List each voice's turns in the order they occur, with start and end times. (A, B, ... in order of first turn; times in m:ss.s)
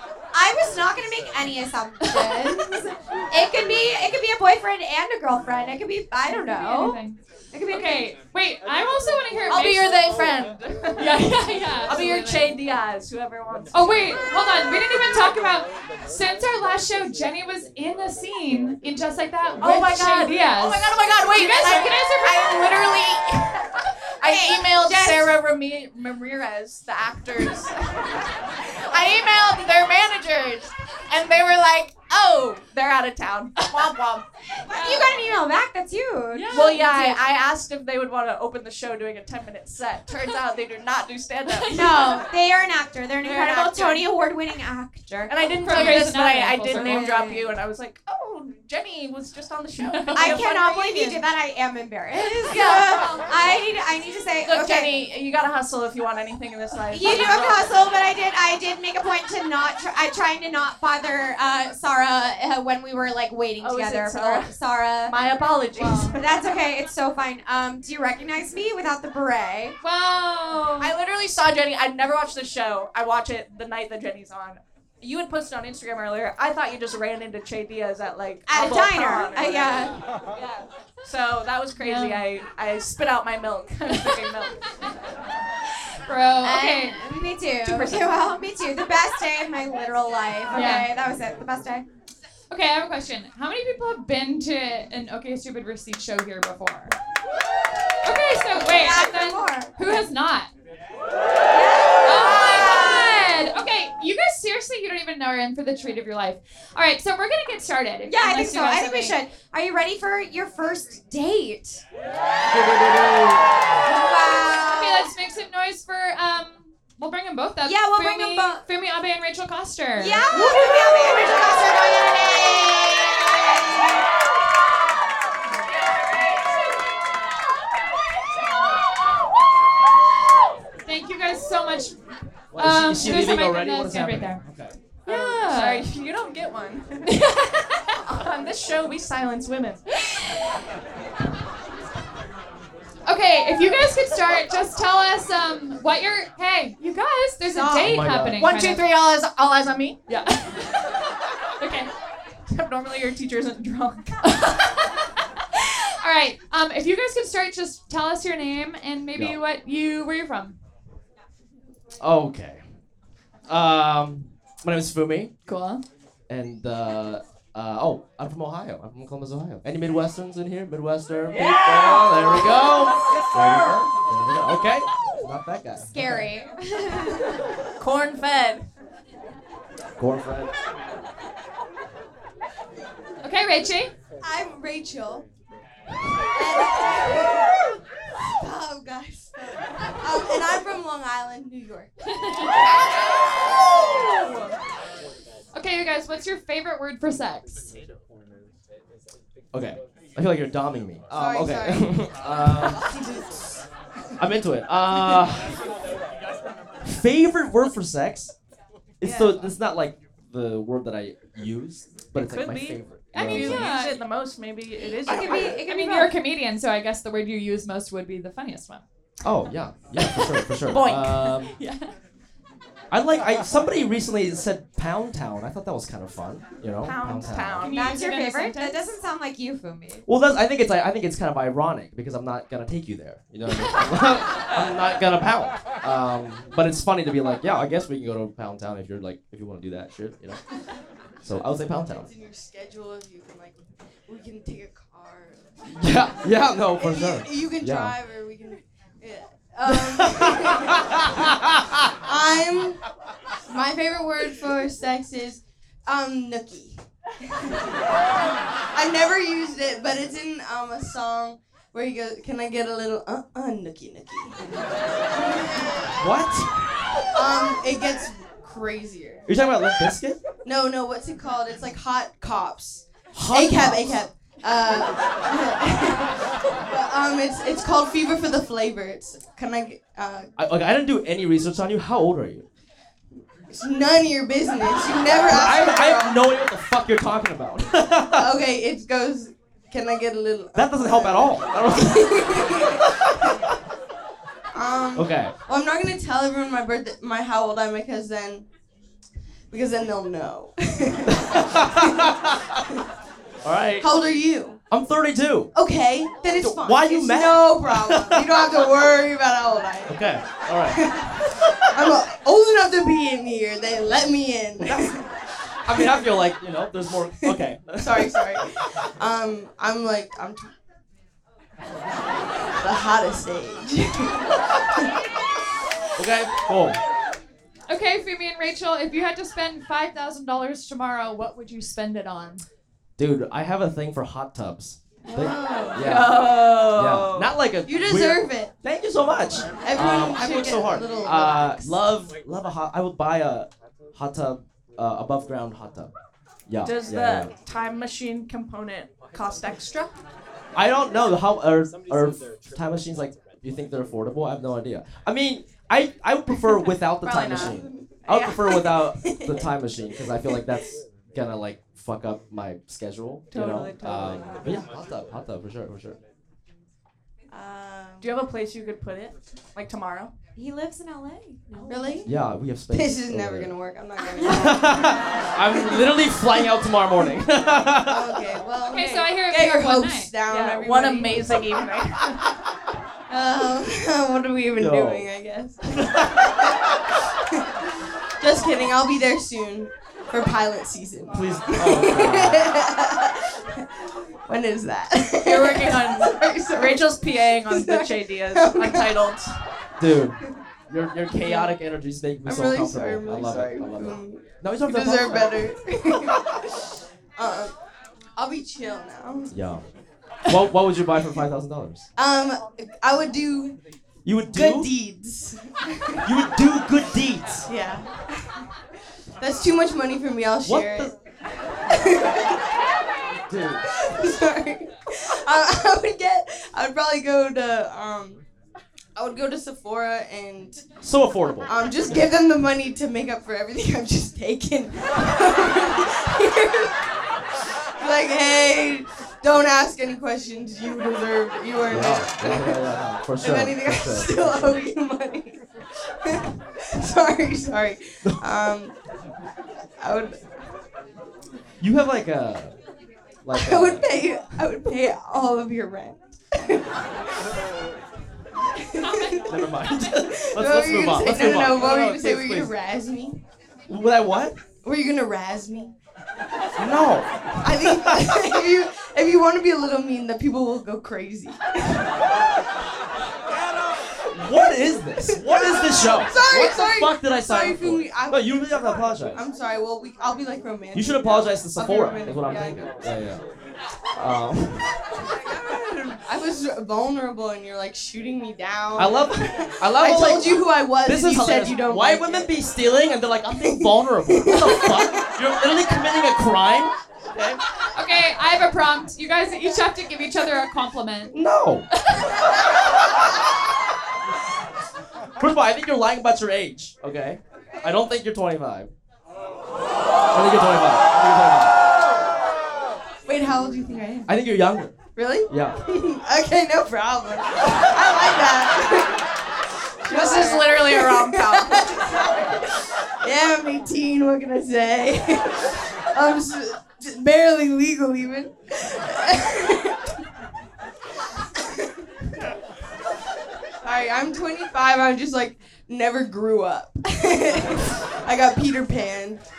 0:00.3-0:07.0 A
0:06.2-0:10.0 B
0:07.5-0:08.1 A
0:09.5-0:11.3 C
0:11.0-0:12.5 B
0:11.8-0:14.2 C
0:13.7-0:22.6 B
0:19.6-0:23.5 C
0:24.2-0:34.2 C
0:24.2-0:25.4 A
0:34.7-0:35.1 B
0:34.7-0:37.2 A
0:36.3-0:36.9 B
0:36.5-0:41.8 C
0:41.5-0:42.2 B
0:41.7-0:46.1 A
0:43.2-0:44.1 C
0:45.3-0:51.2 C
0:45.6-0:47.0 B
0:46.7-0:47.5 A
0:49.8-0:50.4 B
0:50.1-0:55.1 A
0:52.4-0:53.3 C
0:54.4-0:57.7 C
0:56.9-1:05.1 A
1:03.6-1:04.5 C
1:05.0-1:06.3 C
1:05.8-1:06.2 B
1:06.2-1:09.8 A
1:09.8-1:10.9 B
1:10.8-1:24.9 C
1:18.5-1:20.0 A
1:21.8-1:22.2 B
1:26.0-1:27.0 B
1:26.4-1:31.8 A
1:27.6-1:28.3 C
1:30.5-1:30.9 B
1:32.5-1:36.9 B
1:38.0-1:40.5 B
1:38.5-1:39.7 A
1:41.5-1:43.2 A
1:42.0-1:49.2 B
1:48.0-1:51.8 A
1:53.8-1:55.1 A
1:54.6-2:00.2 B
1:57.6-1:58.6 A
2:00.0-2:04.0 A
2:10.8-2:12.0 B
2:12.5-2:14.8 D
2:12.6-2:14.4 B
2:15.0-2:15.8 B
2:15.1-2:17.2 C
2:17.1-2:18.0 B
2:18.0-2:19.8 C
2:23.0-2:28.8 B
2:27.6-2:28.4 D
2:28.4-2:30.0 C
2:30.1-2:30.9 B
2:31.6-2:31.9 B
2:32.5-2:34.2 C
2:34.2-2:40.6 B
2:42.0-2:42.6 D
2:43.5-2:45.3 D
2:45.4-2:45.8 B
2:46.3-2:56.3 D
2:55.9-2:57.4 A
2:57.8-2:58.6 C
3:00.0-3:00.5 D
3:03.2-3:03.9 B
3:04.2-3:05.2 E
3:06.3-3:07.6 E
3:08.3-3:11.9 E
3:15.5-3:17.7 B
3:19.5-3:22.8 D
3:21.1-3:23.6 E
3:24.2-3:25.6 D
3:26.8-3:28.3 D
3:29.0-3:33.7 D
3:29.0-3:29.4 E
3:32.1-3:35.6 C
3:33.1-3:34.0 B
3:34.8-3:36.1 A
3:35.6-3:38.8 B
3:39.2-3:41.6 D
3:40.6-3:41.6 C
3:42.9-3:47.7 D
3:46.8-3:47.8 C
3:47.6-3:48.8 B
3:47.7-3:50.0 A
3:50.0-4:00.4 D
4:01.2-4:02.1 D
4:01.9-4:06.0 E
4:05.7-4:08.0 D
4:06.7-4:11.0 E
4:09.7-4:11.6 D
4:12.0-4:12.8 E
4:13.5-4:17.6 E
4:18.7-4:24.4 E
4:26.0-4:26.6 D
4:27.1-4:29.3 E
4:29.3-4:30.2 D
4:30.4-4:40.3 E
4:33.1-4:34.0 D
4:40.4-4:42.4 D
4:43.5-4:46.2 E
4:45.2-4:48.3 D
4:48.2-4:52.8 E
4:50.5-4:52.5 D
4:54.5-4:58.4 E
4:54.9-4:55.3 D
4:59.5-5:02.1 E
5:01.1-5:02.6 D
5:03.4-5:03.9 D
5:03.8-5:04.6 E
5:04.7-5:05.5 D
5:05.5-5:15.1 E
5:06.3-5:08.5 D
5:09.9-5:10.9 D
5:14.6-5:14.9 D
5:15.6-5:18.3 D
5:15.7-5:16.3 E
5:17.2-5:20.5 E
5:22.6-5:24.9 E
5:26.0-5:26.8 D
5:27.7-5:32.4 B
5:33.0-5:45.9 D
5:35.0-5:36.1 E
5:35.8-5:37.3 C
5:37.6-5:38.5 E
5:39.6-5:41.9 E
5:46.5-5:47.3 D
5:46.6-5:49.9 C
5:50.5-6:06.0 D
5:57.0-6:00.5 E
6:03.3-6:04.6 C
6:07.3-6:08.1 E
6:08.0-6:10.1 C
6:10.4-6:12.0 A
6:11.7-6:12.2 E
6:12.0-6:13.5 D
6:12.7-6:16.1 E
6:14.2-6:14.6 A
6:14.2-6:18.2 D
6:17.8-6:21.6 E
6:18.7-6:20.1 B
6:20.3-6:22.3 C
6:23.1-6:26.5 E
6:24.6-6:25.1 D
6:25.7-6:26.1 D
6:28.2-6:33.6 E
6:31.1-6:32.5 D
6:34.3-6:39.1 E
6:35.2-6:39.3 C
6:39.8-6:45.5 D
6:41.1-6:41.6 E
6:42.2-6:46.4 E
6:47.2-6:47.5 E
6:48.2-6:49.4 E
6:49.3-6:49.6 D
6:50.3-6:51.9 D
6:52.0-6:53.6 E
6:54.0-6:54.7 D
6:54.3-6:56.1 E
6:56.0-6:57.5 D
6:57.5-6:58.4 E
6:59.2-7:00.9 E
7:00.4-7:00.9 D
7:01.7-7:02.4 E
7:03.3-7:03.6 D
7:03.7-7:08.2 E
7:09.0-7:10.6 E
7:10.8-7:11.5 D
7:11.5-7:16.8 E
7:17.8-7:25.4 E
7:21.7-7:24.6 D
7:26.0-7:28.7 E
7:29.8-7:30.3 E
7:31.6-7:32.6 D
7:33.2-7:33.9 D
7:33.3-7:36.8 E
7:38.5-7:39.5 E
7:38.9-7:39.1 B
7:39.3-7:42.5 D
7:40.0-7:43.2 E
7:43.7-7:44.4 D
7:44.6-7:45.7 E
7:46.6-7:48.2 D
7:47.4-7:51.9 E
7:54.1-7:59.2 D
7:54.2-8:02.8 E
8:00.7-8:03.2 D
8:04.0-8:04.7 D
8:05.2-8:12.3 E
8:08.7-8:17.4 D
8:13.4-8:15.1 E
8:17.7-8:21.2 B
8:21.1-8:21.6 D
8:25.2-8:28.7 D
8:30.1-8:31.6 D
8:33.1-8:34.1 E
8:34.1-8:35.6 D
8:34.9-8:39.0 E
8:39.8-8:49.8 E
8:39.9-8:41.8 C
8:51.4-8:51.7 E
8:53.6-8:59.2 E